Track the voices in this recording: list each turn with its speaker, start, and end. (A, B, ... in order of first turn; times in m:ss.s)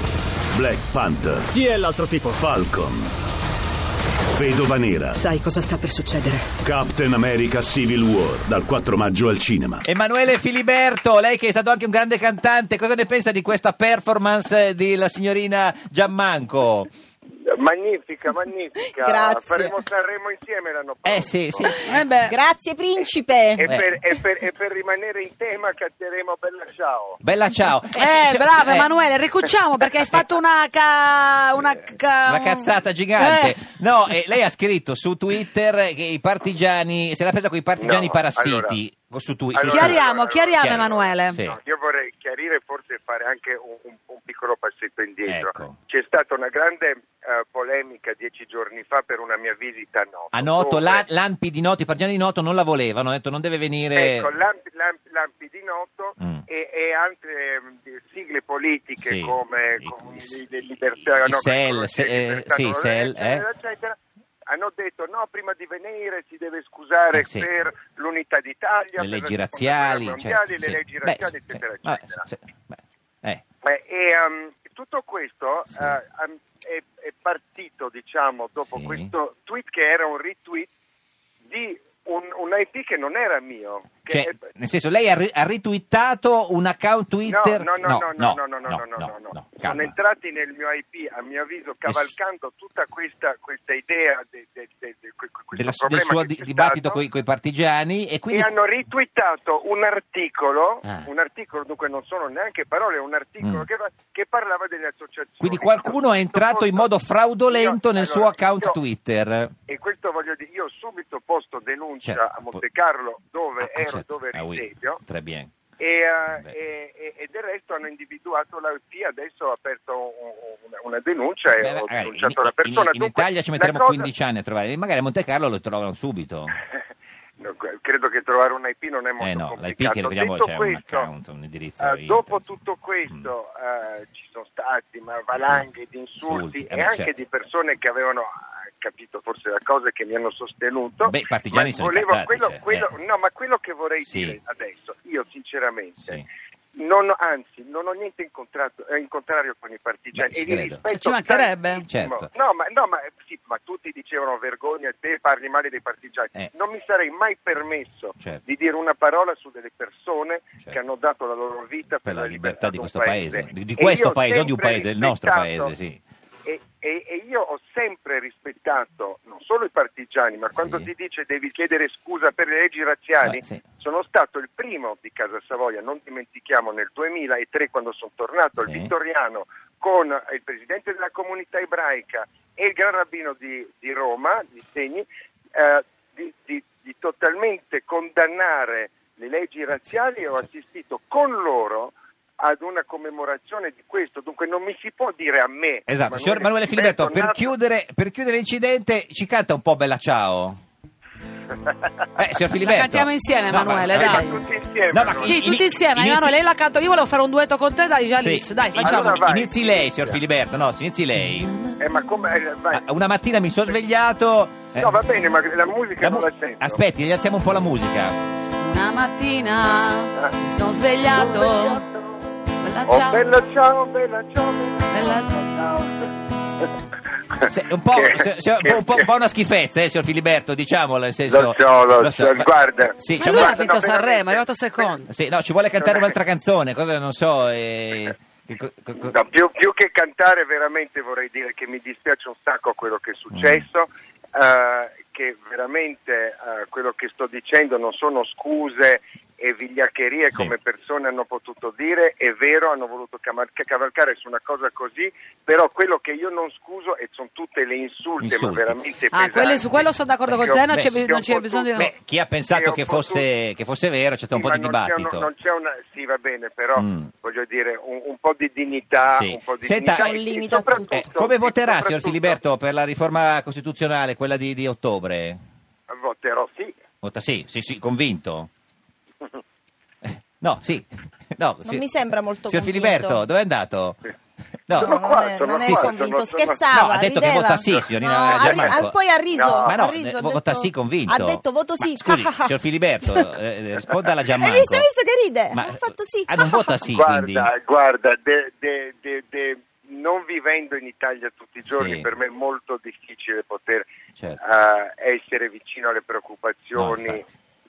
0:00.5-0:01.6 A
0:02.2-0:03.1 A
0:04.3-0:05.4 A
0:06.6-0:09.9 A
0:09.8-0:16.9 B
0:17.4-0:21.8 C
0:19.0-0:19.7 D
0:21.0-0:21.8 B
0:21.7-0:23.7 D
0:21.8-0:22.4 E
0:23.6-0:27.2 C
0:23.7-0:23.9 B
0:27.2-0:28.9 B
0:28.0-0:33.6 E
0:32.2-0:40.0 B
0:37.8-0:38.8 C
0:39.5-0:51.0 C
0:39.7-0:41.4 E
0:40.6-0:41.6 B
0:45.2-0:45.8 B
0:50.3-0:54.3 B
0:54.0-1:04.0 C
0:56.2-0:56.4 B
0:59.0-1:00.3 B
1:01.0-1:03.4 B
1:04.5-1:12.2 C
1:07.1-1:07.5 B
1:09.0-1:13.4 B
1:13.6-1:20.7 C
1:18.7-1:19.1 B
1:21.5-1:24.4 C
1:24.1-1:29.9 B
1:27.3-1:37.0 C
1:31.8-1:32.1 B
1:35.6-1:38.5 B
1:38.3-1:46.9 C
1:43.4-1:43.7 B
1:45.4-1:49.5 B
1:47.5-1:48.8 C
1:49.7-1:55.0 C
1:52.0-1:52.6 B
1:53.6-1:55.5 B
1:55.8-2:04.1 C
2:01.6-2:06.6 B
2:07.4-2:11.1 C
2:09.2-2:12.5 B
2:11.8-2:26.2 C
2:15.4-2:15.6 B
2:16.2-2:17.1 B
2:21.0-2:22.9 B
2:24.0-2:24.4 B
2:26.8-2:45.7 C
2:30.1-2:30.8 B
2:30.9-2:31.9 E
2:31.9-2:32.3 B
2:42.1-2:46.0 B
2:46.4-3:17.5 C
2:50.5-2:50.9 B
2:53.2-2:53.6 B
2:58.6-2:58.9 B
3:15.9-3:20.6 B
3:21.6-3:21.9 C
3:22.2-3:24.3 B
3:22.6-3:24.4 E
3:23.9-3:25.4 C
3:24.9-3:26.3 B
3:25.2-3:29.3 E
3:28.2-3:31.5 B
3:28.8-3:30.2 C
3:31.8-3:32.8 C
3:32.7-3:34.9 B
3:34.8-3:36.8 C
3:36.0-3:38.2 B
3:38.6-3:41.8 E
3:41.1-3:42.3 C
3:42.6-3:43.2 E
3:42.9-3:46.7 C
3:44.9-3:45.4 E
3:47.3-3:49.0 C
3:47.5-3:53.6 B
3:51.3-3:54.9 C
3:53.2-3:55.1 E
3:55.1-3:59.2 B
3:55.8-3:56.1 C
3:59.0-4:21.9 C
4:03.3-4:03.6 B
4:18.2-4:18.8 B
4:19.1-4:21.9 E
4:20.4-4:21.1 B
4:21.7-4:25.3 B
4:22.5-4:23.2 C
4:24.3-4:32.4 C
4:26.8-4:27.1 B
4:29.1-4:30.1 B
4:30.0-4:31.1 D
4:30.9-4:35.4 B
4:35.9-4:36.8 C
4:37.0-4:38.5 B
4:40.0-4:41.9 B
4:41.7-4:43.2 D
4:42.5-4:44.0 B
4:44.7-4:45.0 B
4:44.7-4:46.6 C
4:44.8-4:52.5 D
4:45.5-4:45.9 B
4:46.7-4:49.0 B
4:48.2-4:48.8 C
4:49.3-4:49.8 C
4:49.6-4:54.9 B
4:54.4-4:56.8 D
4:55.5-4:57.5 B
4:56.9-5:03.9 C
5:01.7-5:02.1 B
5:04.4-5:07.2 C
5:06.8-5:07.3 B